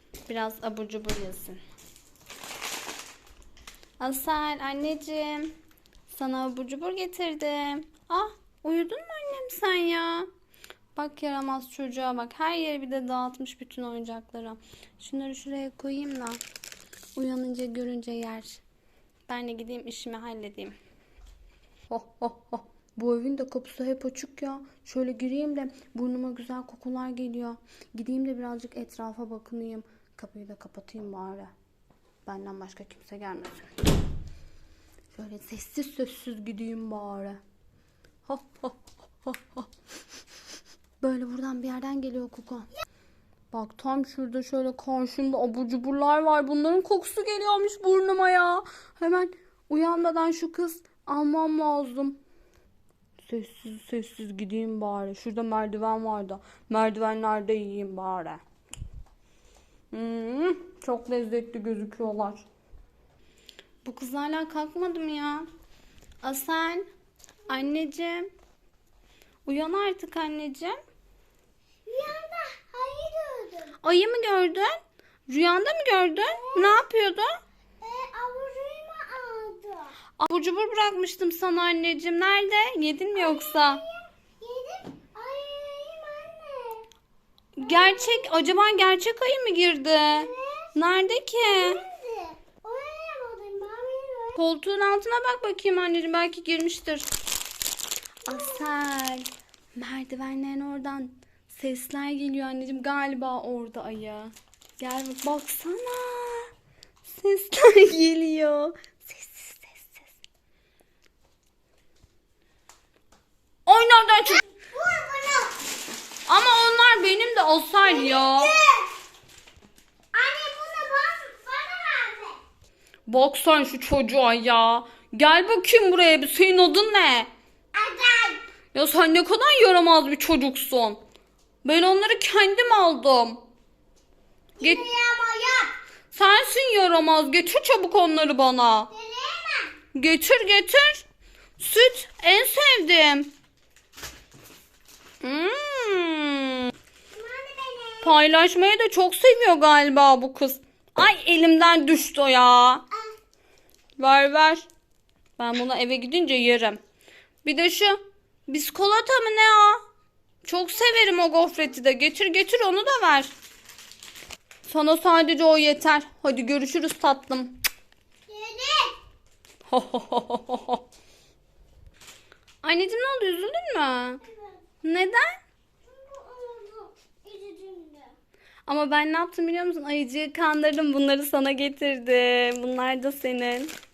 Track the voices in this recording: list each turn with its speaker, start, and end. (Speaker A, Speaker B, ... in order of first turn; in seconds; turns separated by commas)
Speaker A: 0.3-1.6, Speaker A: 4.0-5.5, Speaker A: 6.1-10.3, Speaker A: 10.9-16.4, Speaker A: 17.2-18.6, Speaker A: 19.3-20.8, Speaker A: 21.9-31.5, Speaker A: 32.3-33.7, Speaker A: 35.1-37.4, Speaker A: 38.3-39.7, Speaker A: 41.0-42.7, Speaker A: 43.5-52.2, Speaker A: 53.2-58.4, Speaker A: 59.9-62.5, Speaker A: 63.8-65.5, Speaker A: 66.2-66.9, Speaker A: 67.5-68.3, Speaker A: 69.5-70.8, Speaker B: 71.9-73.8, Speaker A: 73.8-77.3, Speaker B: 76.3-76.8, Speaker B: 77.8-79.9, Speaker A: 80.2-83.8, Speaker B: 83.2-86.8, Speaker A: 87.6-91.8, Speaker B: 87.6-88.4, Speaker B: 90.1-90.7, Speaker B: 91.4-94.4, Speaker A: 94.3-97.1, Speaker A: 98.2-106.5, Speaker B: 98.3-98.7, Speaker A: 107.1-110.1, Speaker A: 113.7-114.4, Speaker B: 114.5-115.6, Speaker A: 116.3-118.5, Speaker B: 117.8-118.9, Speaker B: 120.1-122.4, Speaker A: 123.1-127.3, Speaker B: 127.7-128.4, Speaker A: 128.7-131.0, Speaker A: 131.6-133.4, Speaker B: 134.6-135.8, Speaker A: 136.1-138.9, Speaker B: 138.9-139.7, Speaker A: 139.9-141.1, Speaker A: 141.6-143.3, Speaker A: 145.2-146.7, Speaker B: 147.1-148.2, Speaker A: 148.0-152.8, Speaker A: 154.0-154.7, Speaker A: 155.4-156.8, Speaker A: 157.4-159.8, Speaker A: 160.4-163.3, Speaker A: 164.7-167.6, Speaker B: 168.3-169.0, Speaker A: 169.7-170.8, Speaker A: 172.6-174.2, Speaker A: 174.8-175.3, Speaker B: 175.8-178.1, Speaker A: 178.7-183.7